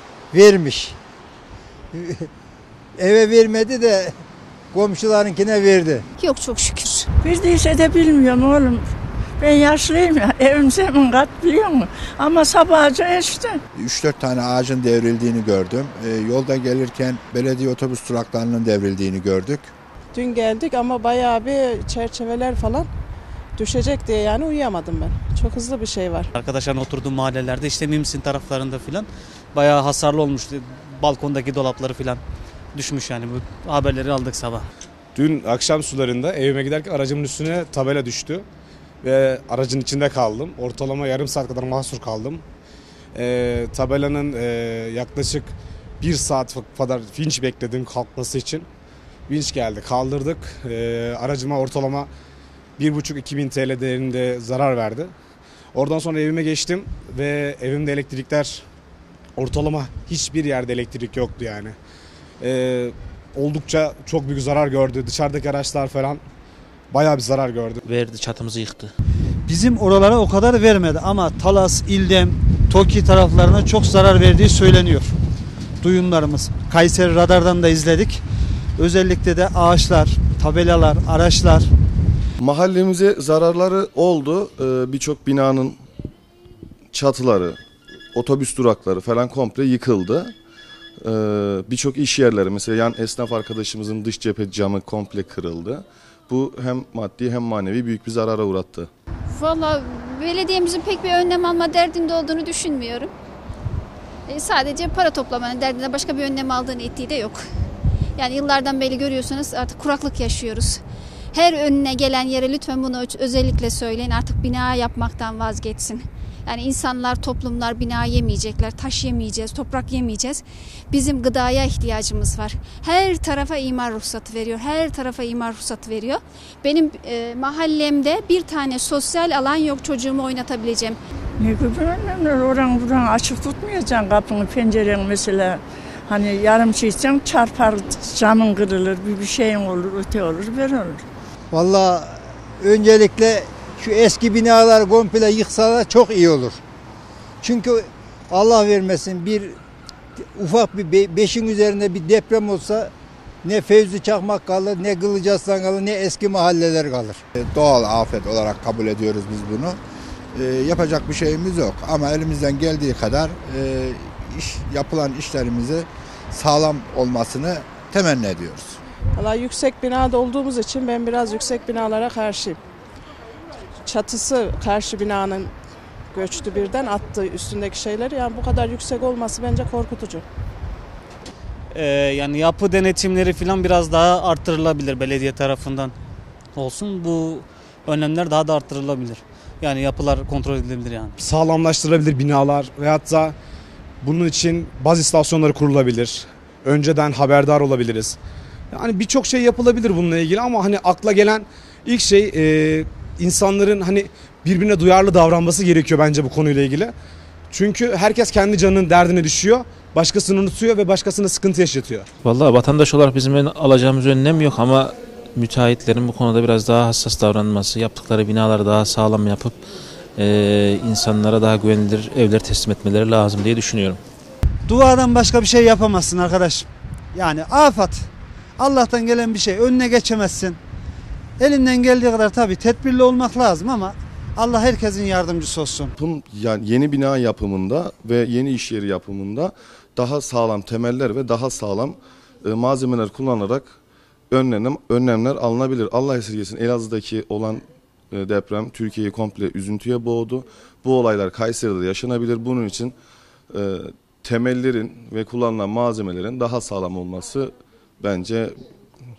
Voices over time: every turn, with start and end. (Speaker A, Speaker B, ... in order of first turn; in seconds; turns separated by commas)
Speaker A: 0.3-0.9, Speaker A: 1.9-2.2, Speaker A: 3.0-4.1, Speaker A: 4.7-6.0, Speaker B: 6.2-7.1, Speaker C: 7.3-8.8, Speaker C: 9.4-13.5, Speaker D: 13.8-19.7, Speaker E: 20.1-22.9, Speaker E: 23.6-26.3, Speaker F: 26.4-32.2, Speaker F: 32.7-34.7, Speaker G: 35.1-38.5, Speaker G: 39.0-42.4, Speaker G: 43.1-48.7, Speaker G: 49.3-52.1, Speaker G: 52.8-55.1, Speaker G: 55.7-58.6, Speaker G: 59.4-61.8, Speaker G: 62.4-66.2, Speaker G: 66.9-67.8, Speaker H: 67.8-68.9, Speaker I: 69.5-75.1, Speaker I: 75.8-78.2, Speaker I: 78.8-81.7, Speaker J: 82.4-85.8, Speaker J: 86.9-87.6, Speaker J: 88.1-90.3, Speaker J: 91.0-98.9, Speaker B: 99.3-103.1, Speaker B: 104.3-107.4, Speaker B: 108.2-110.8, Speaker B: 111.3-131.0, Speaker C: 131.4-140.9, Speaker A: 141.5-146.6, Speaker A: 147.4-149.6, Speaker A: 150.3-152.9, Speaker A: 153.4-157.2, Speaker D: 157.4-159.8, Speaker D: 160.3-168.8, Speaker E: 169.2-172.6, Speaker E: 173.8-175.5, Speaker E: 176.1-180.2, Speaker F: 181.7-185.9, Speaker F: 186.6-191.2, Speaker G: 191.2-193.3, Speaker G: 194.0-198.2, Speaker G: 198.7-206.9, Speaker G: 207.5-212.1, Speaker H: 212.2-219.6, Speaker H: 220.2-224.0, Speaker I: 224.7-228.1, Speaker I: 228.6-230.6, Speaker I: 231.4-235.9, Speaker J: 236.0-243.8, Speaker J: 244.3-252.9, Speaker J: 253.5-258.6